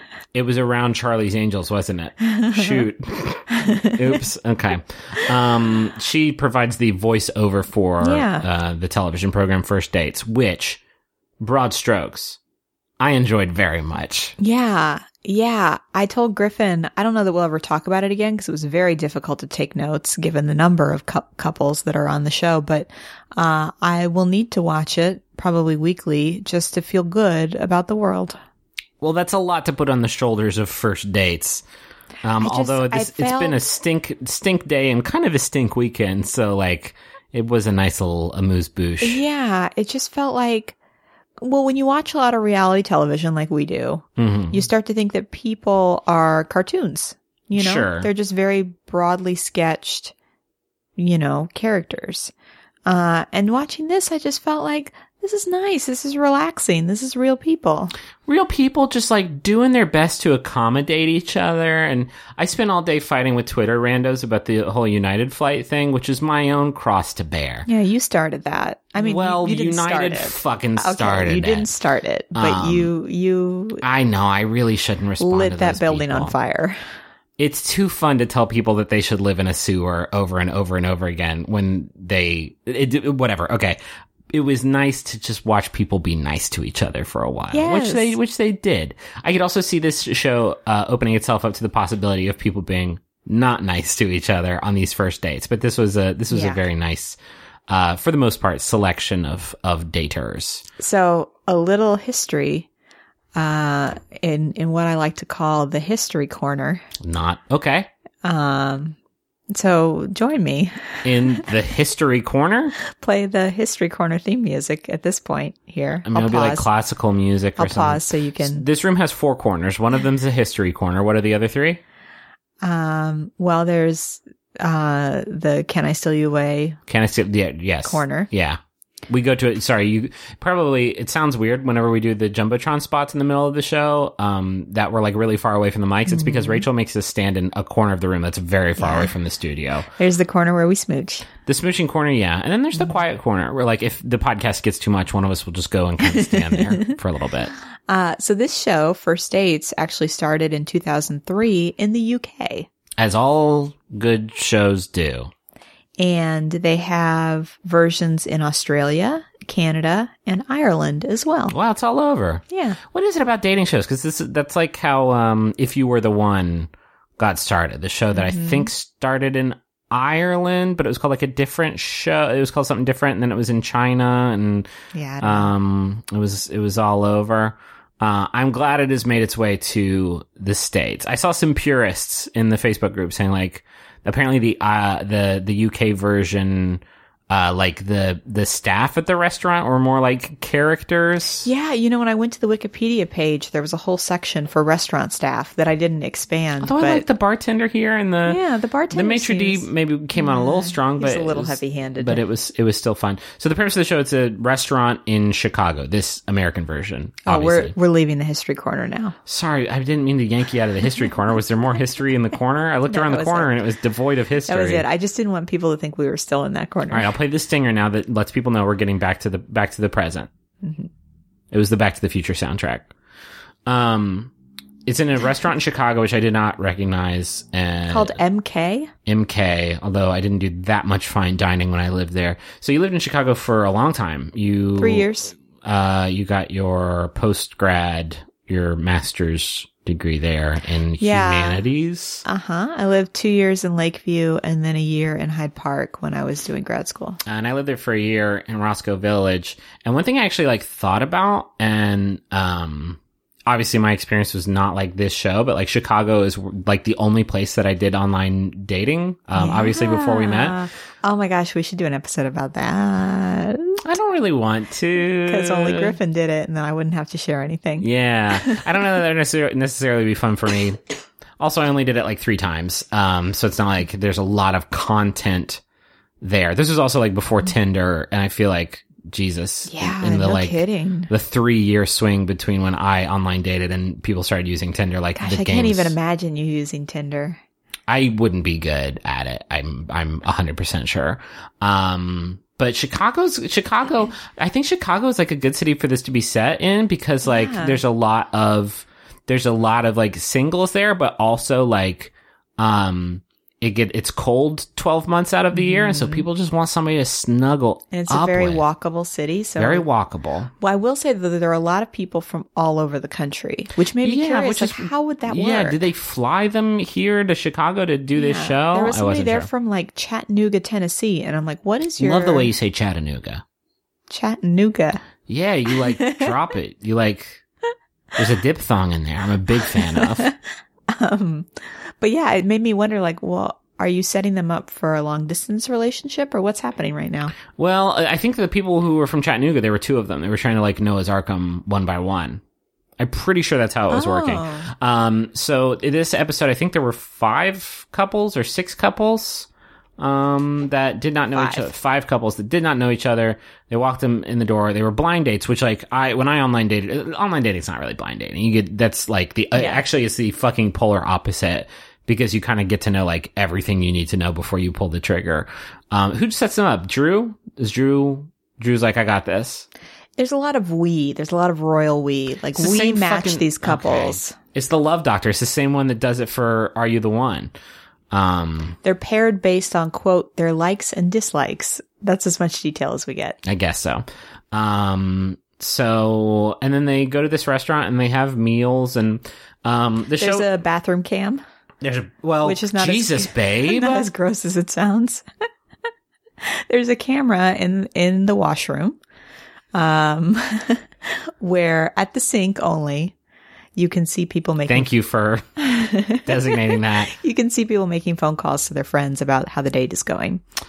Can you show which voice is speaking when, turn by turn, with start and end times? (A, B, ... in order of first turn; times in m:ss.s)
0:00.3-0:10.8 A
0:02.2-0:02.9 B
0:03.6-0:04.0 B
0:08.0-0:08.4 B
0:11.4-0:12.4 A
0:13.0-0:14.4 A
0:14.4-0:28.4 B
0:29.0-0:31.6 A
0:32.2-0:39.2 A
0:32.4-0:33.6 B
0:39.0-0:40.8 B
0:41.4-0:50.1 B
0:44.2-0:44.7 A
0:47.6-0:48.1 A
0:51.0-0:52.3 B
0:52.9-0:57.9 B
0:58.3-1:07.7 A
1:07.7-1:13.8 B
1:09.0-1:11.7 A
1:12.4-1:12.9 A
1:13.8-1:16.4 A
1:15.2-1:16.8 B
1:17.4-1:23.8 A
1:24.3-1:37.2 A
1:27.5-1:28.2 B
1:36.3-1:36.6 B
1:37.7-1:40.6 A
1:40.8-1:42.7 B
1:43.4-1:46.8 B
1:47.0-1:47.9 A
1:48.2-1:49.0 B
1:49.5-1:50.7 B
1:51.0-1:52.8 A
1:52.9-1:56.7 B
1:56.0-2:01.8 A
1:57.6-1:58.7 B
2:02.6-2:06.8 B
2:06.9-2:19.9 A
2:07.8-2:08.3 B
2:16.1-2:16.6 B
2:18.8-2:19.1 B
2:20.0-2:21.3 B
2:21.5-2:27.5 A
2:26.1-2:27.0 B
2:27.9-2:32.7 B
2:33.0-2:35.3 A
2:36.0-2:41.5 B
2:41.5-2:54.7 A
2:42.5-2:42.8 B
2:48.1-2:48.7 B
2:54.9-2:55.5 B
2:55.2-3:11.5 A
3:11.4-3:17.1 B
3:16.6-3:27.8 A
3:18.2-3:22.2 B
3:27.3-3:29.2 B
3:29.3-3:34.9 A
3:32.9-3:33.6 B
3:34.5-3:37.1 B
3:36.9-3:40.3 A
3:40.6-3:40.9 B
3:41.5-3:42.9 A
3:43.7-3:44.3 A
3:44.9-3:48.2 A
3:47.9-3:48.9 B
3:49.1-4:02.2 A
3:54.8-3:55.3 B
4:01.0-4:01.6 B
4:02.2-4:07.2 B
4:07.2-4:20.6 A
4:19.4-4:23.8 B
4:23.8-4:26.0 A
4:25.2-4:27.9 B
4:27.8-4:30.8 A
4:31.4-4:35.6 A
4:36.2-4:46.0 A
4:39.7-4:41.1 B
4:45.2-4:47.4 B
4:47.9-5:08.6 A
4:57.2-4:57.8 B
5:05.5-5:06.3 B
5:07.9-5:09.9 B
5:09.6-5:10.5 A
5:10.6-5:15.8 B
5:14.0-5:19.5 A
5:18.2-5:22.5 B
5:22.0-5:23.4 A
5:24.1-5:25.0 B
5:25.3-5:27.4 A
5:25.9-5:26.4 B
5:28.2-5:30.3 A
5:29.7-5:30.4 B
5:30.9-5:31.5 B
5:32.0-5:37.3 B
5:37.5-5:42.4 A
5:43.0-6:09.7 A
5:43.9-5:44.7 B
5:51.4-5:51.7 B
5:59.6-5:59.8 B
6:10.2-6:14.4 B
6:12.5-6:17.5 A
6:18.1-6:18.8 A
6:18.8-6:23.4 B
6:23.4-6:30.5 A
6:30.2-6:31.4 B
6:31.8-6:34.1 A
6:32.4-6:35.2 B
6:36.4-6:39.0 B
6:39.7-6:43.1 B
6:43.8-6:44.9 B
6:44.7-6:45.5 A
6:45.6-6:50.4 B
6:46.2-6:47.1 A